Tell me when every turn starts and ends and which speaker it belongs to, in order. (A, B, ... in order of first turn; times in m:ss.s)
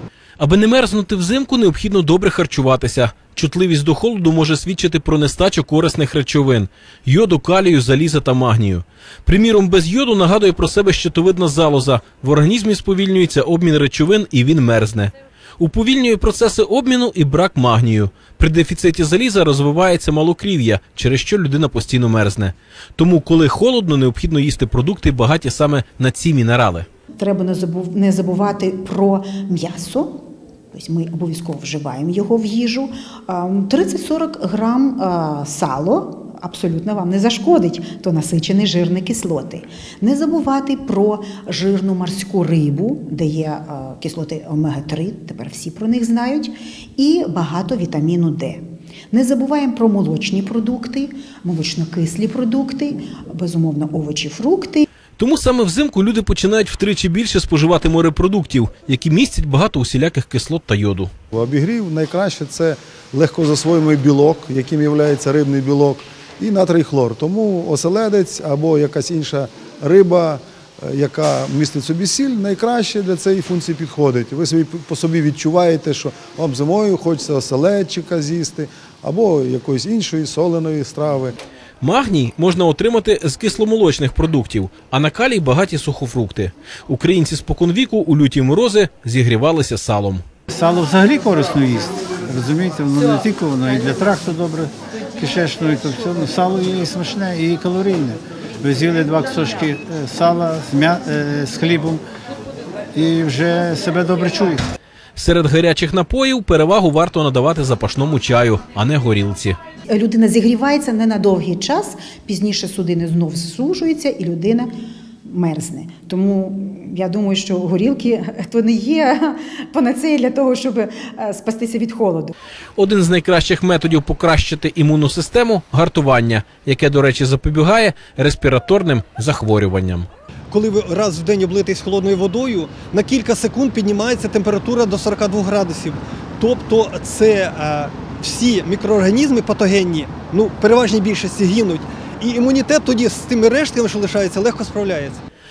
0:00.4-0:26.9 A
0:27.2-0:30.1 B
0:30.7-0:54.8 B
0:55.2-1:01.1 A
1:01.3-1:21.4 C
1:21.8-1:30.2 A
1:30.5-1:42.0 D
1:42.9-1:44.6 D
1:45.2-1:49.6 A
1:49.9-1:54.7 B
1:55.3-2:02.3 B
2:02.8-2:10.1 A
2:10.5-2:25.2 E